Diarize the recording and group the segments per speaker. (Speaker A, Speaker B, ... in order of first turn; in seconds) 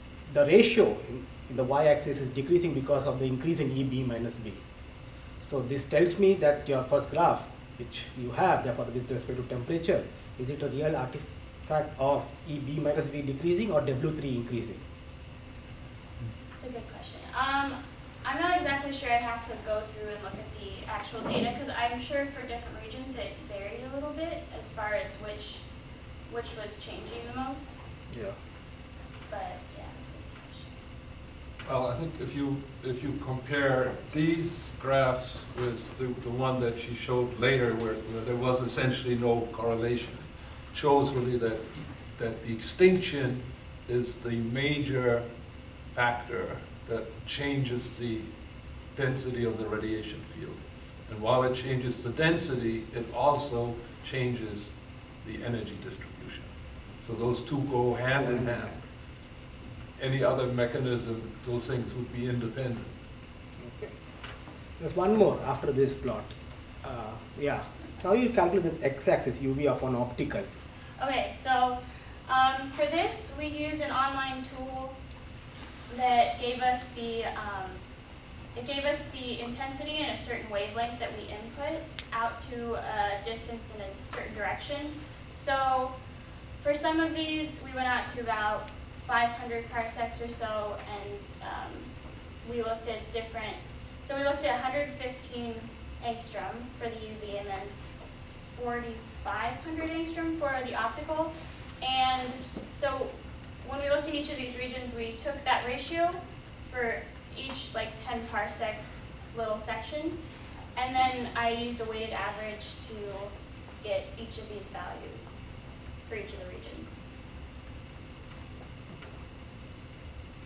Speaker A: 0.2-4.6, 5.4-14.8, 28.1-28.4, 58.1-58.7, 63.6-63.9, 64.8-70.5
Speaker B: 16.6-25.6, 26.3-27.8, 29.3-30.7, 71.0-75.0, 75.9-77.8, 78.5-85.9, 86.6-91.9, 92.4-97.7, 98.5-110.2, 110.8-115.4, 116.0-117.0
Speaker C: 31.6-45.3, 45.8-58.9, 60.0-62.9